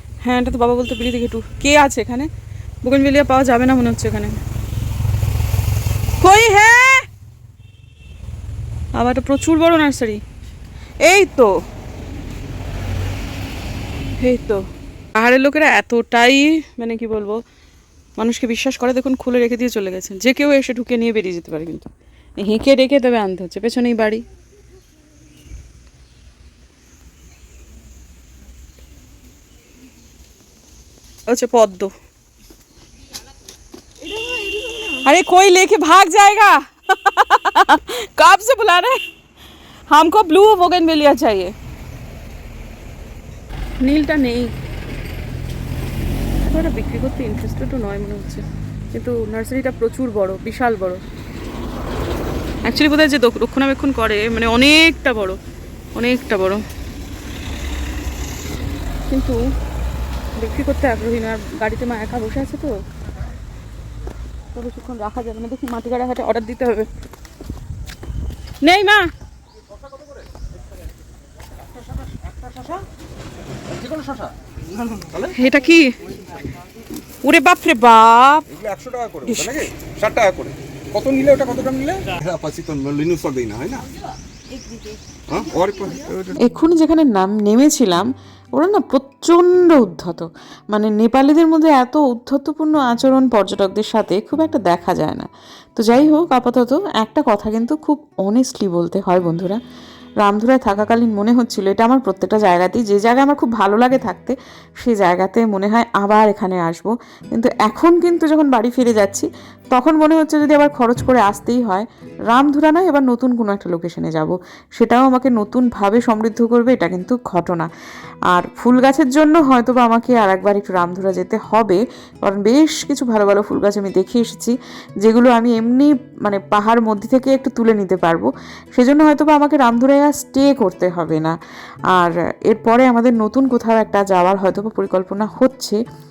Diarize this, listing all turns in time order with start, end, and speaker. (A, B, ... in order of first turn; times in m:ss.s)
0:00.2-0:02.3 A
0:02.8-0:04.4 A
0:06.2-0:07.1 A
0:09.0-0:10.2 A
0:11.0-0:11.5 A
0:14.2-0:14.6 A
0:15.2-0:17.4 A
0:18.2-0:21.9 A
0:22.4-0:24.2 A
0:31.3-0:31.9 A
0:34.9-0:39.0 A
0:39.9-0:41.5 A
0:43.8-0:44.5 A
0:46.4-0:51.0 A
0:52.7-0:55.4 A
0:56.0-0:56.6 A
0:59.1-0:59.4 A
1:00.4-1:02.7 A
1:04.5-1:06.9 A
1:08.6-1:09.1 A
1:12.3-1:12.8 B
1:13.7-1:14.3 B
1:15.0-1:15.4 B
1:15.3-1:15.9 A
1:17.2-1:18.5 A
1:18.5-1:23.9 B
1:19.3-1:19.6 A
1:25.3-1:26.4 B
1:26.4-1:39.6 C
1:40.2-1:57.7 C
1:58.3-2:11.4 C
2:11.9-2:15.8 C